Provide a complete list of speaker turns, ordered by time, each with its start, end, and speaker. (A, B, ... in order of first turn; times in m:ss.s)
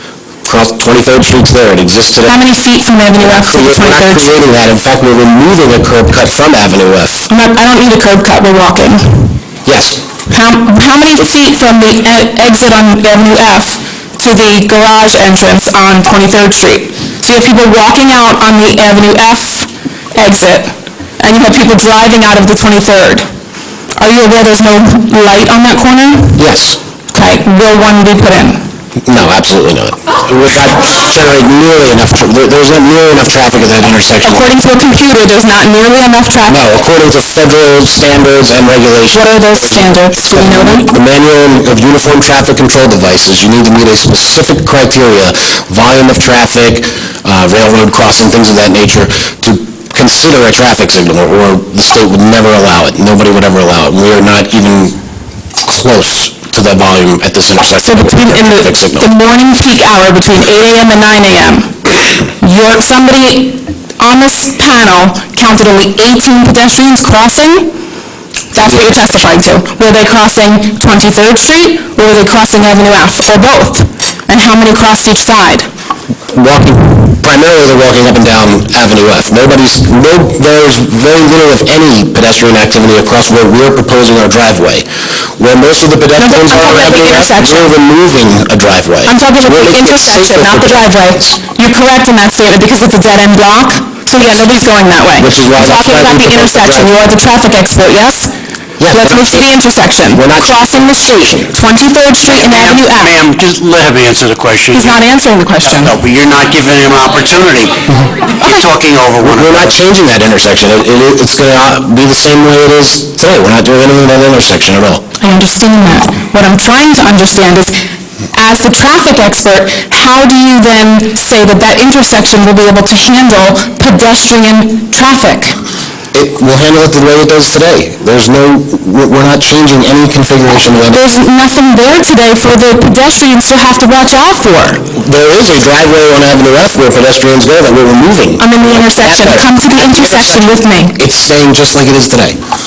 0:00.4-0:02.4 A
0:02.3-0:04.4 B
0:03.2-0:07.3 A
0:07.3-0:09.4 B
0:09.6-0:10.0 A
0:10.3-0:23.3 B
0:24.0-0:26.4 B
0:26.4-0:26.8 A
0:27.1-0:28.6 B
0:29.0-0:34.5 A
0:34.2-0:36.6 B
0:36.5-0:54.9 A
0:39.1-0:40.9 B
0:55.6-0:59.1 A
0:57.8-1:01.8 B
1:02.4-1:07.7 B
1:08.5-1:15.7 B
1:08.6-1:09.1 A
1:16.3-1:24.8 A
1:25.4-1:31.4 A
1:26.2-1:27.7 B
1:29.0-1:38.3 B
1:35.2-1:36.9 A
1:38.8-1:39.4 A
1:38.9-1:43.2 B
1:40.1-1:41.5 A
1:42.2-1:45.0 C
1:44.7-1:46.0 B
1:45.6-1:49.7 C
1:49.2-1:55.0 A
1:55.2-1:57.7 B
1:58.3-2:05.6 B
2:06.1-2:11.0 A
2:10.9-2:14.8 B
2:14.9-2:22.4 A
2:18.4-2:21.0 B